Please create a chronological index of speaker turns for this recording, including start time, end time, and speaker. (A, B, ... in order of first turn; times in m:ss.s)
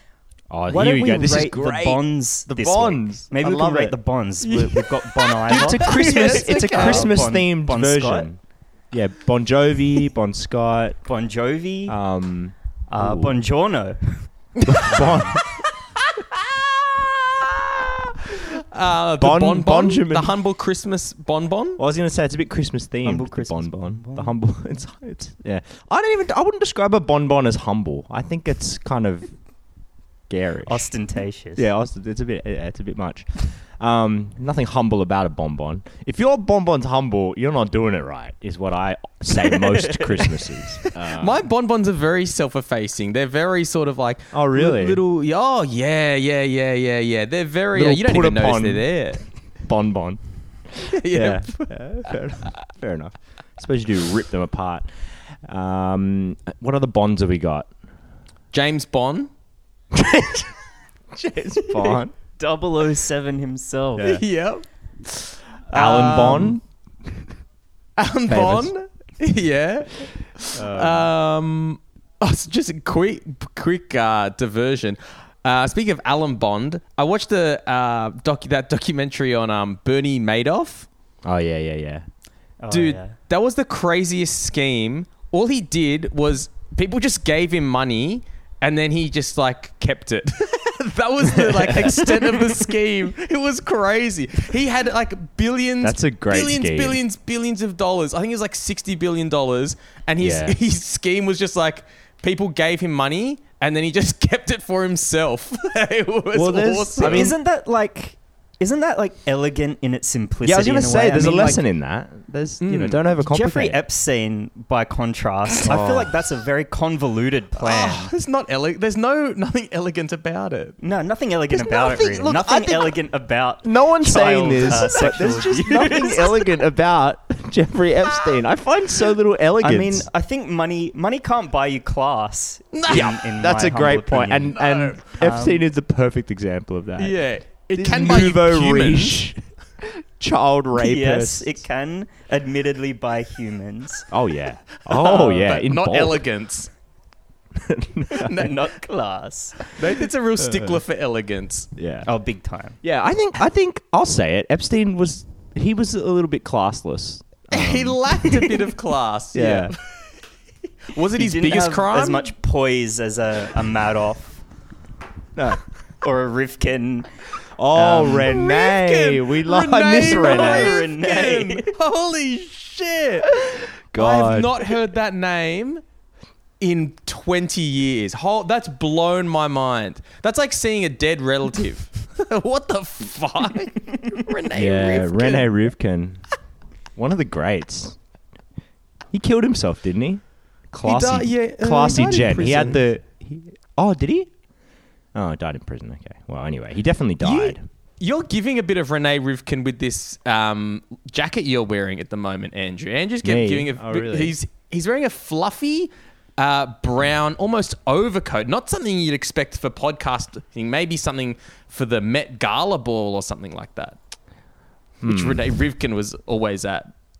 0:00.5-0:04.0 A
0:00.7-0:08.3 B
0:04.4-0:07.2 C
0:05.5-0:08.4 A
0:08.9-0:11.0 A
0:11.0-0:12.0 B
0:11.9-0:13.4 A
0:12.9-0:14.3 B
0:14.6-0:15.2 C
0:14.7-0:15.4 A
0:14.8-0:15.4 B
0:17.8-0:18.4 A
0:18.3-0:21.8 C
0:19.2-0:20.3 A
0:21.8-0:29.3 A
0:23.0-0:24.4 B
0:30.3-0:30.9 A
0:30.6-0:31.7 B
0:31.6-0:41.4 A
0:39.7-0:40.0 B
0:40.9-0:49.2 C
0:44.3-0:45.0 A
0:47.7-0:54.9 A
0:50.8-0:52.2 C
0:55.4-0:57.7 A
0:58.5-0:59.3 C
0:59.9-1:00.5 A
1:01.1-1:02.1 A
1:01.7-1:04.2 B
1:04.0-1:04.2 A
1:04.0-1:06.6 C
1:05.7-1:06.6 A
1:08.0-1:20.9 C
1:08.3-1:08.7 A
1:10.5-1:11.1 A
1:21.2-1:22.0 A
1:22.6-1:23.2 B
1:22.7-1:47.4 C
1:31.3-1:32.3 A
1:35.8-1:37.0 A
1:40.2-1:40.6 A
1:46.3-1:47.4 A
1:47.0-1:51.6 B
1:50.4-1:53.8 A
1:52.6-1:53.0 C
1:53.2-1:58.1 B
1:55.7-1:56.1 A
1:57.6-2:00.8 C
2:00.8-2:06.3 B
2:01.5-2:03.0 A
2:03.6-2:10.1 A
2:04.8-2:06.4 C
2:09.6-2:14.6 B
2:12.7-2:13.1 C
2:12.9-2:21.5 A
2:14.5-2:15.0 C
2:15.1-2:15.6 B
2:17.0-2:19.2 C
2:20.8-2:24.1 B
2:24.1-2:26.2 A
2:24.8-2:26.7 C
2:27.5-2:28.5 A
2:28.1-2:29.7 B
2:28.2-2:28.6 C
2:29.6-2:31.7 C
2:30.4-2:30.8 A
2:31.8-2:32.1 A
2:32.1-2:32.8 B
2:32.8-2:38.1 A
2:37.5-2:40.0 C
2:39.3-2:39.7 A
2:40.9-2:42.3 C
2:41.2-2:44.4 B
2:46.0-2:47.1 B
2:47.6-2:50.8 A
2:47.7-2:48.3 B
2:48.2-2:53.4 C
2:50.2-2:51.7 B
2:53.3-2:54.8 A
2:54.0-2:55.8 C
2:56.6-3:05.7 C
3:04.5-3:06.2 A
3:07.0-3:08.0 A
3:09.1-3:14.3 A
3:10.8-3:12.8 C
3:15.1-3:17.6 A
3:17.2-3:34.0 C
3:23.2-3:24.4 A
3:35.0-3:35.4 A
3:35.0-3:36.9 C